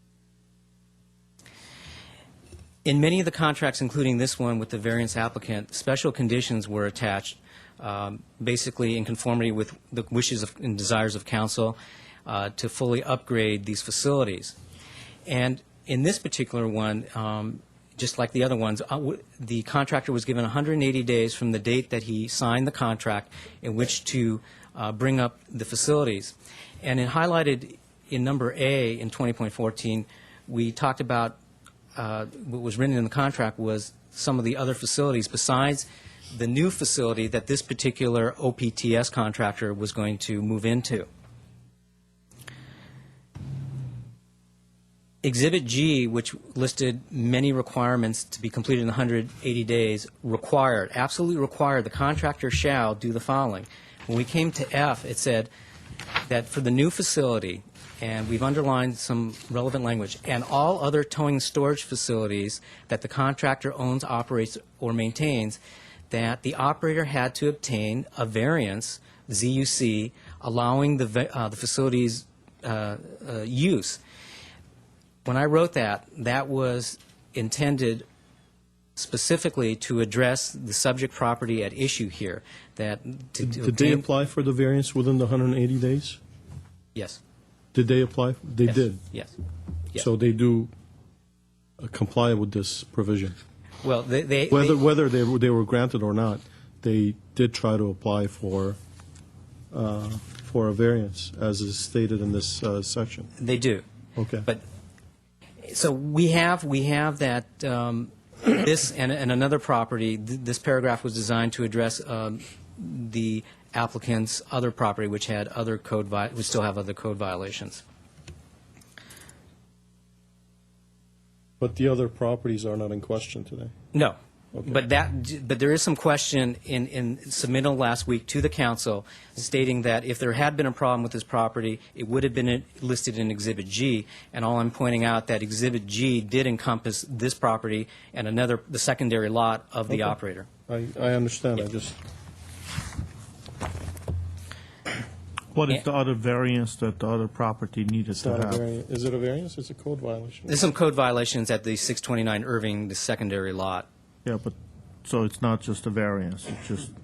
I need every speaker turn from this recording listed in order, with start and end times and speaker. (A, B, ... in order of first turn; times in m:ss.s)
0:02.8-0:14.6 A
0:15.3-0:31.4 A
0:32.0-0:41.1 A
0:45.2-0:55.5 A
0:56.3-1:05.6 A
1:06.1-1:14.0 A
1:15.2-1:18.0 A
1:19.0-1:24.0 A
1:23.4-1:26.2 B
1:26.9-1:27.2 A
1:27.7-1:29.0 B
1:28.6-1:29.3 A
1:30.0-1:30.7 B
1:31.8-1:33.4 B
1:33.8-1:34.8 A
1:34.5-1:38.8 B
1:39.7-1:43.3 B
1:43.4-1:43.8 A
1:44.2-1:44.5 B
1:45.6-1:57.8 A
2:01.6-2:03.7 B
2:03.9-2:20.5 A
2:19.9-2:20.2 B
2:20.7-2:22.0 B
2:25.5-2:28.6 C
2:28.1-2:30.5 B
2:30.5-2:33.9 A
2:34.2-2:34.5 C
2:35.0-2:36.9 C